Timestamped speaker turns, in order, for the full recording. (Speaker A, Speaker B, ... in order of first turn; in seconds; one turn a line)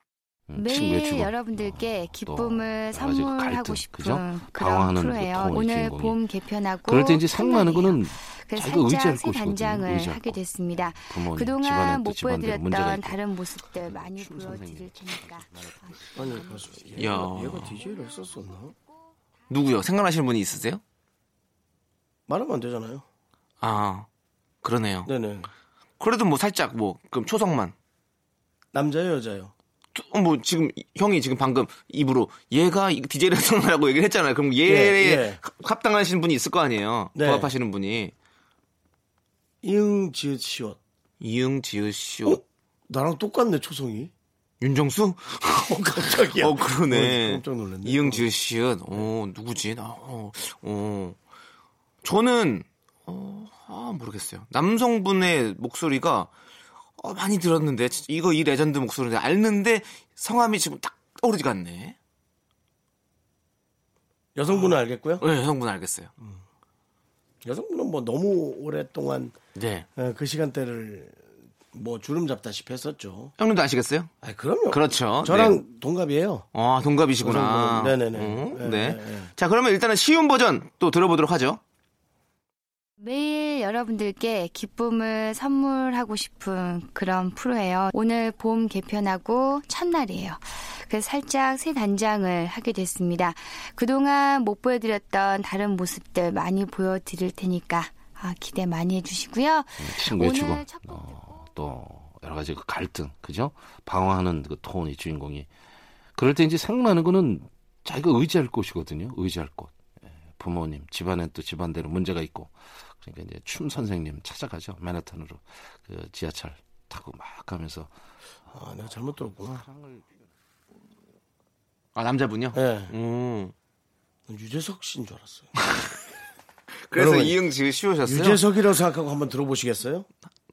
Speaker A: 0.5-6.2
Speaker B: 0.5-16.5
Speaker A: 6.9-17.4
Speaker C: 16.1-18.7
Speaker D: 17.0-17.8
Speaker D: 19.5-20.8
Speaker C: 22.3-23.1
Speaker D: 23.6-24.1
Speaker D: 24.6-25.1
Speaker C: 25.1-25.5
Speaker D: 26.0-27.8
Speaker C: 28.7-29.5
Speaker D: 29.9-38.1
Speaker C: 34.6-35.4
Speaker C: 37.1-37.5
Speaker C: 39.6-40.8
Speaker D: 41.2-42.4
Speaker C: 42.3-44.1
Speaker D: 44.6-51.2
Speaker C: 45.7-48.3
Speaker D: 52.0-56.3
Speaker D: 57.0-62.0
Speaker C: 64.4-65.2
Speaker D: 64.5-66.1
Speaker C: 67.4-69.4
Speaker D: 69.5-69.9
Speaker C: 70.0-71.2
Speaker C: 71.7-73.3
Speaker D: 73.4-74.1
Speaker C: 74.2-76.5
Speaker D: 74.7-75.6
Speaker D: 76.5-81.6
Speaker C: 77.2-79.3
Speaker B: 83.0-101.4
Speaker A: 99.8-105.5
Speaker A: 106.2-117.9
Speaker C: 118.5-119.6
Speaker A: 119.3-120.1
Speaker D: 122.0-123.5
Speaker C: 122.5-122.9
Speaker C: 124.3-125.5
Speaker D: 126.9-128.4
Speaker C: 126.9-127.4
Speaker C: 128.1-130.1